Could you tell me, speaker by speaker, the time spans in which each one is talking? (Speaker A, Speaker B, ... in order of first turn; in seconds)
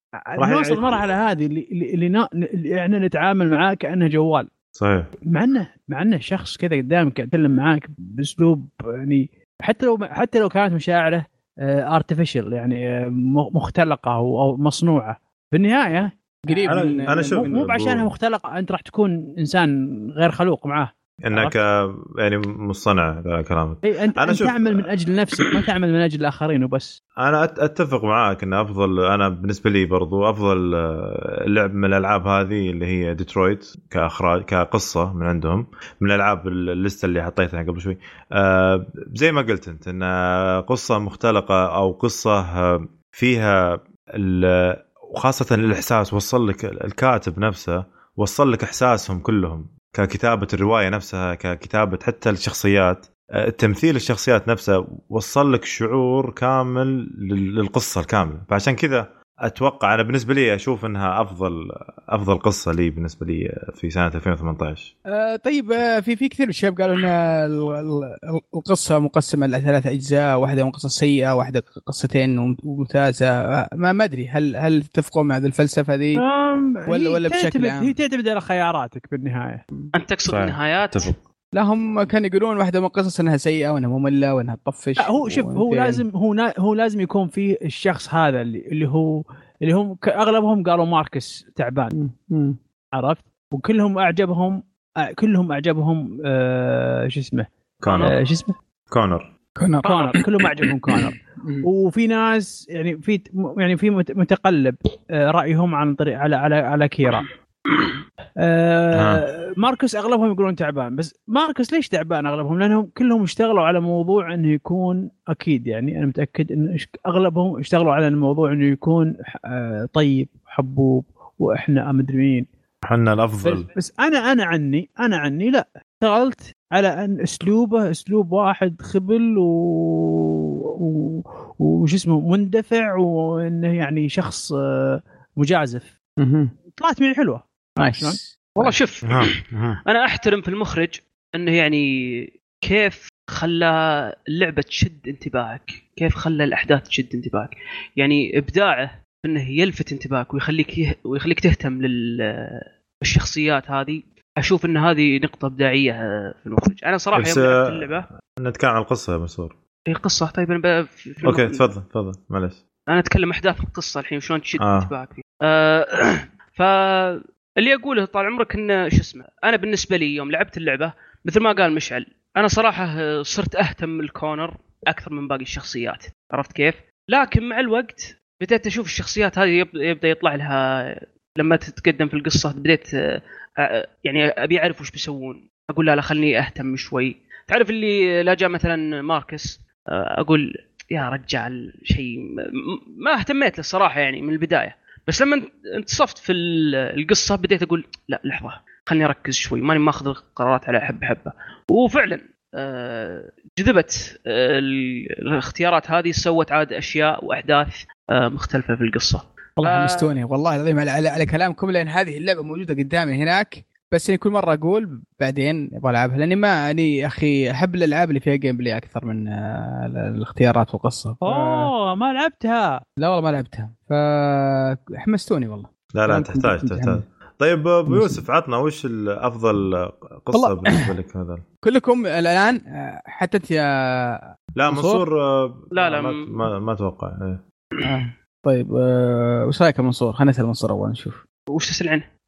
Speaker A: 0.3-4.5, 5.3-21.6, 23.8-27.0, 76.2-79.6, 85.0-91.9, 92.9-98.5, 99.8-107.3, 108.4-122.5, 123.7-135.9, 136.8-137.4, 221.2-222.8
Speaker B: 0.4-1.0, 4.8-5.1, 16.6-18.1, 21.2-24.9, 27.2-64.9, 80.3-81.2, 97.8-98.2, 98.9-99.3, 108.9-109.2, 122.8-123.7, 139.0-139.8, 157.1-159.6, 161.2-162.6, 164.6-164.9, 225.9-231.4, 234.6-237.4
Speaker C: 16.5-17.6, 65.1-76.2, 76.8-78.0, 81.5-86.0, 91.9-92.6, 99.6-99.8, 101.4-101.7, 136.2-136.5, 137.8-138.8, 209.6-221.7, 223.0-227.0, 227.9-228.2, 230.3-230.9, 231.6-235.0, 237.8-241.2
Speaker D: 79.9-81.1, 97.9-98.1, 99.8-100.2, 138.6-158.1, 159.9-161.6, 162.9-182.9, 183.6-210.1, 235.7-236.3, 241.5-242.1